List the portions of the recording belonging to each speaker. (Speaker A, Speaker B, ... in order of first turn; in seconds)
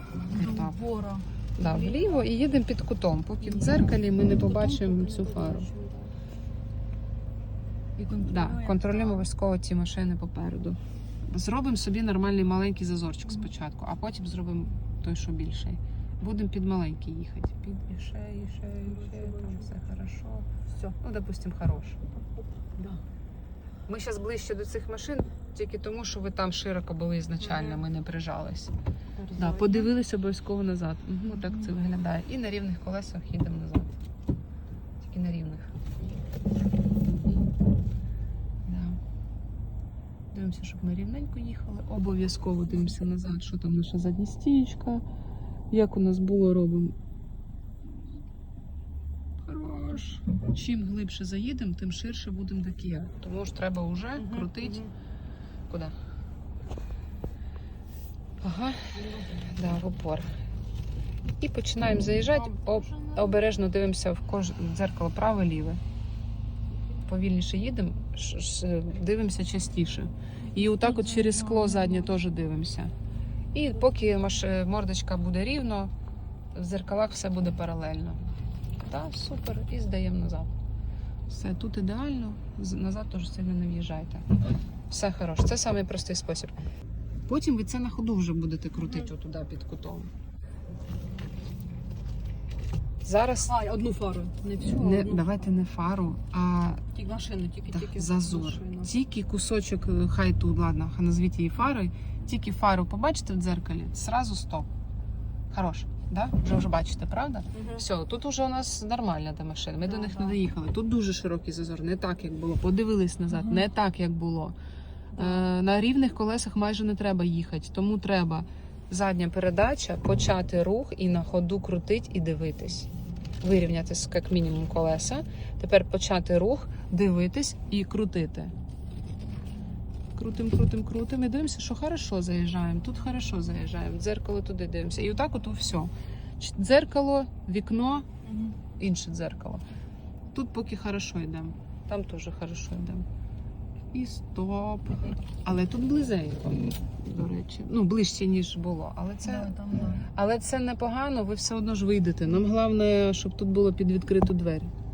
Speaker A: 0.3-2.3, 3.4-6.1, 8.0-9.2, 18.8-19.8, 20.7-21.0, 22.6-23.0, 27.4-27.8, 29.1-29.9, 54.1-54.9, 58.9-59.6, 62.3-63.4, 70.5-72.1, 88.8-89.1, 93.4-95.5, 96.9-98.9, 107.5-107.8, 109.8-110.4, 113.3-113.7, 115.1-115.5, 138.2-138.6, 149.2-150.1
Speaker B: 0.3-0.7, 1.6-5.7, 8.1-20.5, 21.0-22.0, 23.9-28.7, 29.3-33.9, 35.0-35.9, 37.1-37.4, 38.6-39.0, 40.3-45.0, 45.7-46.9, 49.4-54.8, 55.7-55.9, 58.4-58.9, 59.5-60.3, 61.4-65.8, 67.0-72.9, 73.5-75.9, 76.5-78.2, 78.8-80.5, 81.3-84.2, 84.9-86.5, 87.3-90.1, 93.0-93.5, 94.7-96.8, 97.7-104.7, 105.5-114.5, 115.1-122.9, 123.4-128.5, 130.1-138.1, 138.8-139.6, 140.3-143.1, 143.9-154.7